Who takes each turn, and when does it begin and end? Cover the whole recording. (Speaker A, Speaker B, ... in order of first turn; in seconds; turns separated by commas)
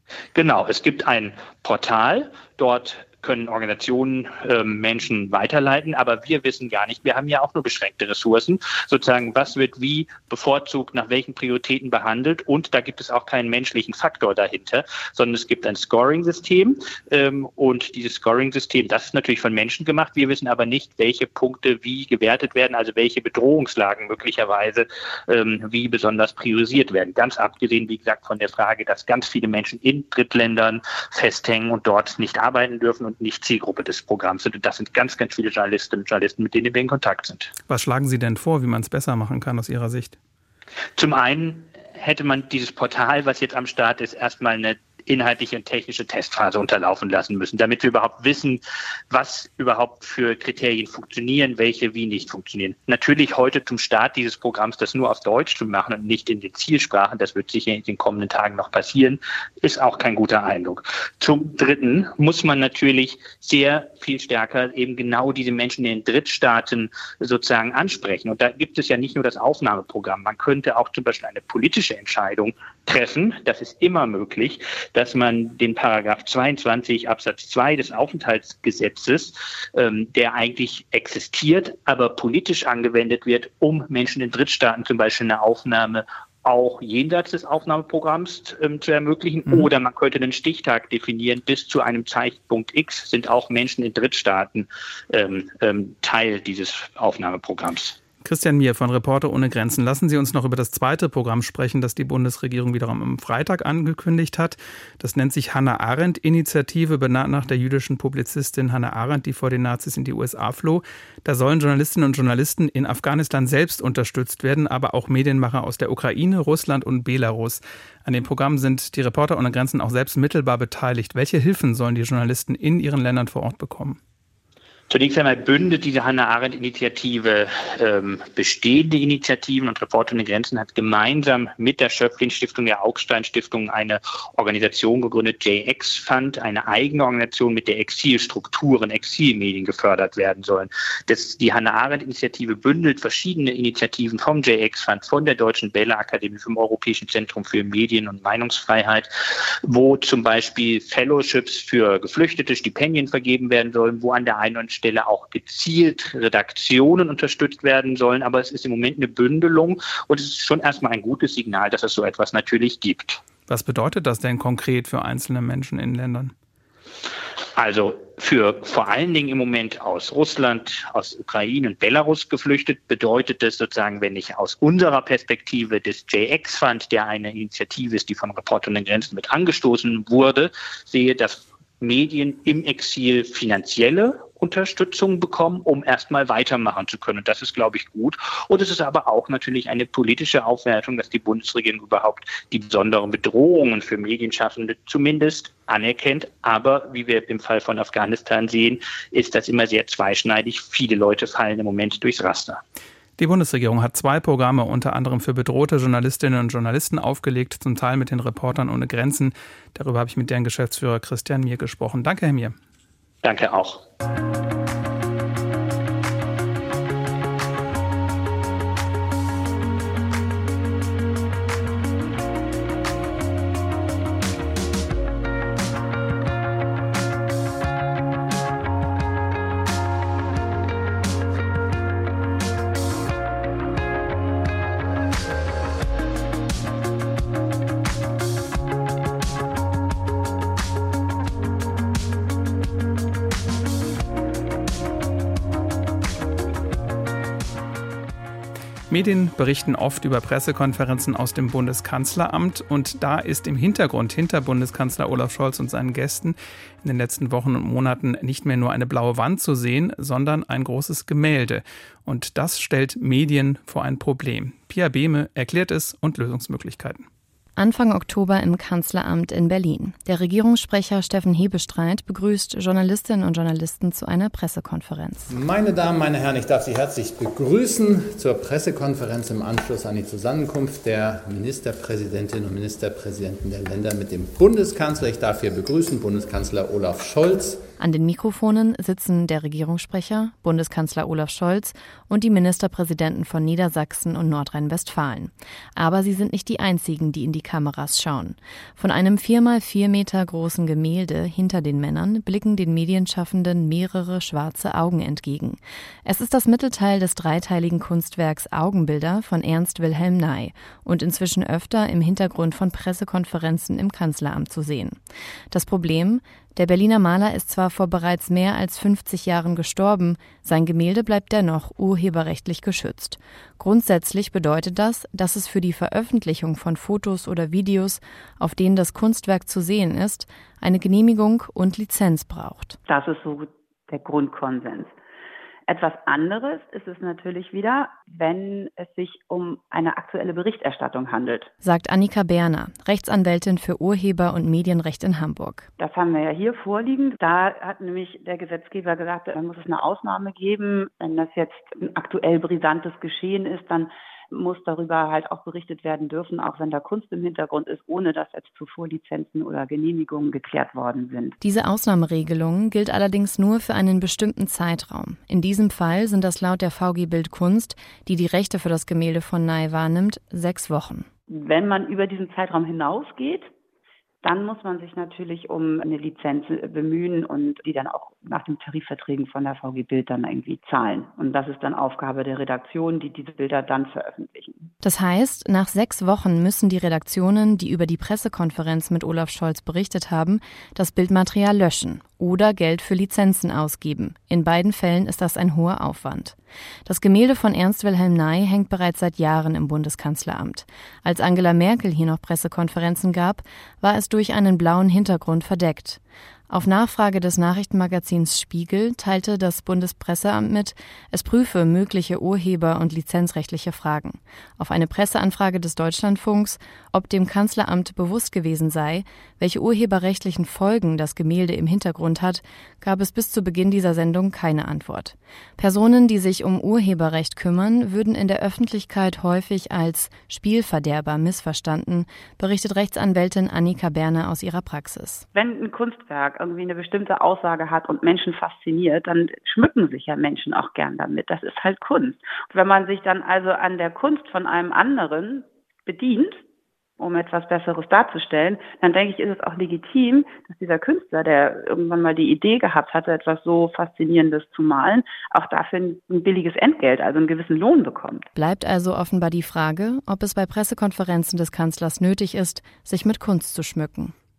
Speaker A: 0.3-37.5, Speaker B: 37.7-40.1, Speaker A: 41.0-48.6, Speaker A: 49.1-98.0, Speaker B: 98.2-124.0, Speaker A: 124.9-149.1, Speaker A: 149.6-163.2, Speaker B: 163.5-166.3, Speaker A: 167.6-202.6, Speaker B: 203.2-212.5, Speaker A: 213.2-213.8, Speaker B: 248.9-267.1, Speaker C: 267.6-275.3, Speaker D: 275.3-287.6, Speaker C: 287.8-315.0, Speaker C: 315.5-332.8, Speaker E: 332.9-334.9, Speaker E: 335.7-341.5, Speaker C: 341.6-345.7, Speaker E: 345.8-361.4, Speaker C: 361.4-371.1, Speaker E: 371.3-373.5, Speaker E: 374.2-384.7, Speaker C: 384.8-435.2, Speaker E: 435.3-446.4, Speaker E: 447.0-458.3, Speaker C: 458.3-464.1